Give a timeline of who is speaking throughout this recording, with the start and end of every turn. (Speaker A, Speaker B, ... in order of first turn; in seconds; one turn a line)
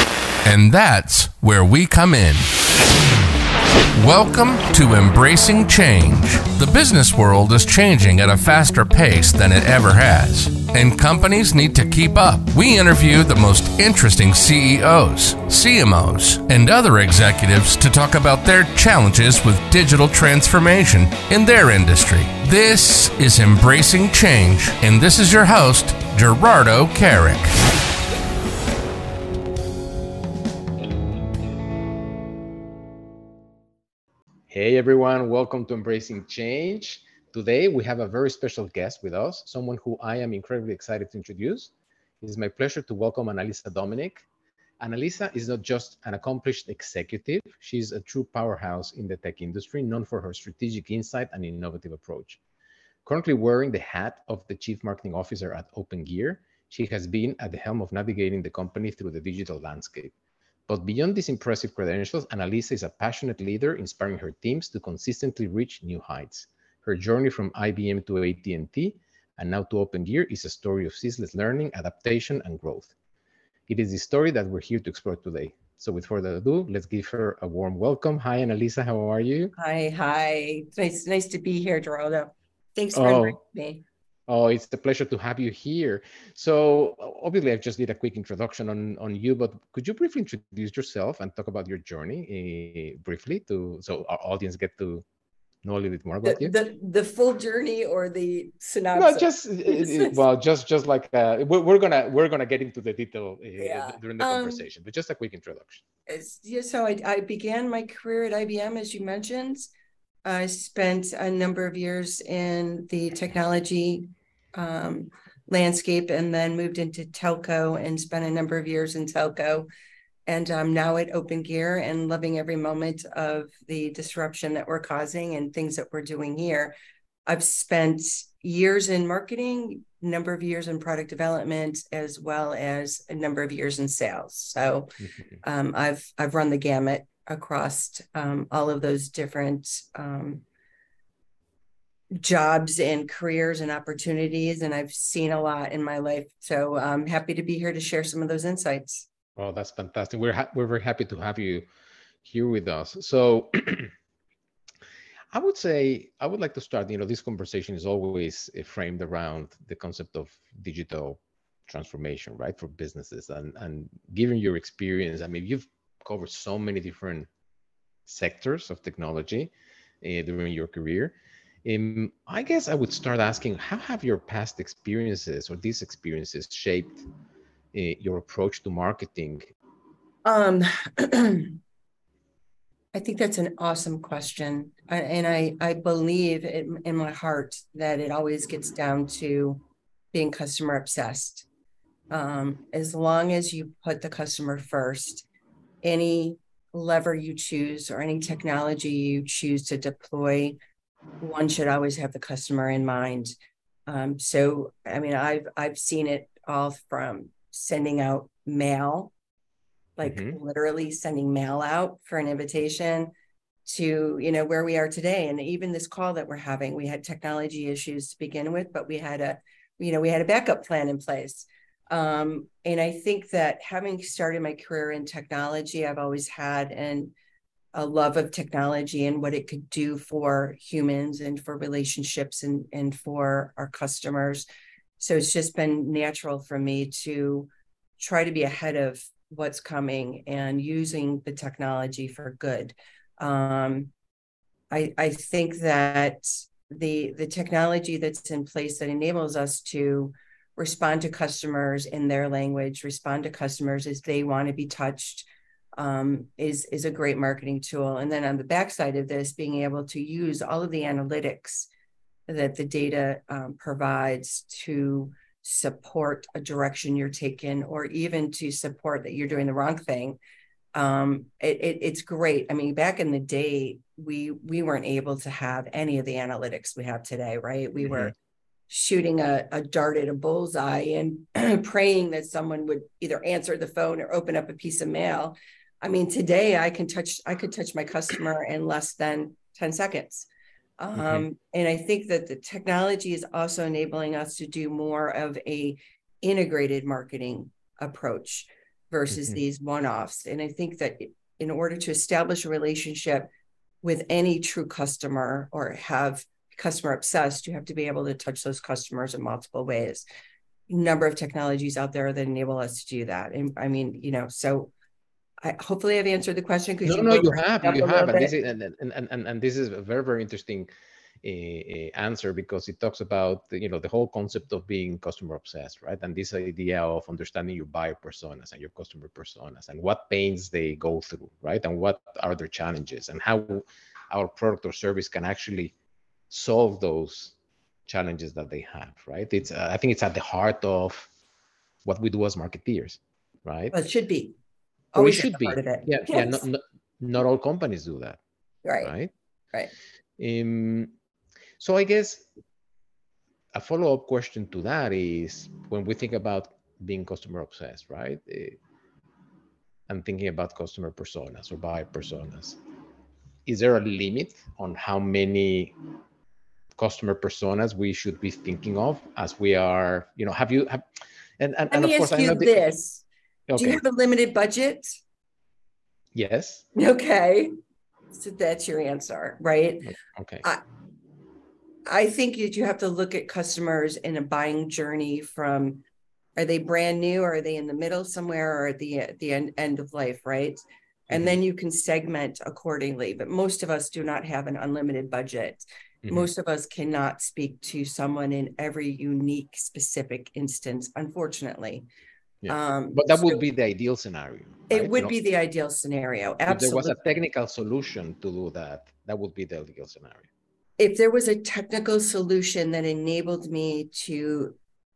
Speaker A: 0.4-2.5
Speaker A: 3.9-27.6
Speaker B: 34.5-44.2
Speaker B: 44.8-52.4
Speaker B: 53.0-60.1
Speaker B: 60.7-72.9
Speaker B: 73.7-79.5
Speaker C: 79.6-83.8
Speaker B: 82.9-83.4
Speaker B: 84.3-95.0
Speaker B: 95.6-96.6
Speaker C: 96.2-100.2
Speaker B: 98.9-105.8
Speaker C: 103.6-104.7
Speaker C: 106.1-109.7
Speaker C: 110.2-119.7
Speaker C: 120.3-126.7
Speaker C: 127.3-140.4
Speaker C: 142.2-149.1
Speaker B: 149.3-151.6
Speaker B: 152.2-153.9
Speaker B: 155.3-167.3
Speaker B: 168.1-169.5
Speaker B: 170.0-177.0
Speaker B: 177.7-179.5
Speaker C: 180.2-181.6
Speaker C: 182.9-189.6
Speaker C: 190.1-191.5
Speaker C: 192.1-195.2
Speaker C: 195.8-200.6
Speaker C: 201.2-203.3
Speaker C: 203.9-209.1
Speaker C: 210.0-213.1
Speaker B: 210.0-210.4
Speaker C: 213.6-227.1
Speaker C: 227.7-234.4
Speaker C: 235.0-243.9
Speaker C: 244.7-261.7
Speaker C: 262.3-270.2
Speaker C: 270.7-278.1
Speaker B: 277.8-278.1
Speaker C: 278.7-303.3
Speaker B: 290.9-291.2
Speaker B: 299.1-299.4
Speaker C: 303.8-310.0
Speaker C: 310.7-314.7
Speaker C: 315.4-318.3
Speaker B: 316.8-320.7
Speaker B: 321.2-335.7
Speaker B: 336.3-337.3
Speaker B: 337.9-341.1
Speaker B: 341.8-343.7
Speaker C: 343.7-344.4
Speaker C: 344.9-346.4
Speaker B: 344.9-348.2
Speaker C: 348.6-348.9
Speaker B: 348.8-349.1
Speaker B: 350.2-350.9
Speaker B: 351.6-352.3
Speaker B: 353.5-358.6
Speaker B: 359.9-362.6
Speaker B: 363.4-365.8
Speaker B: 366.8-370.8
Speaker B: 371.4-372.5
Speaker C: 371.7-373.0
Speaker B: 373.5-373.8
Speaker C: 373.6-375.0
Speaker B: 376.1-376.6
Speaker C: 376.8-377.5
Speaker C: 378.1-379.9
Speaker B: 380.0-380.4
Speaker C: 381.9-385.8
Speaker C: 386.4-401.9
Speaker B: 391.1-391.4
Speaker B: 396.0-396.3
Speaker B: 402.4-405.1
Speaker C: 402.5-403.4
Speaker C: 404.7-407.0
Speaker B: 406.5-410.3
Speaker C: 410.8-414.6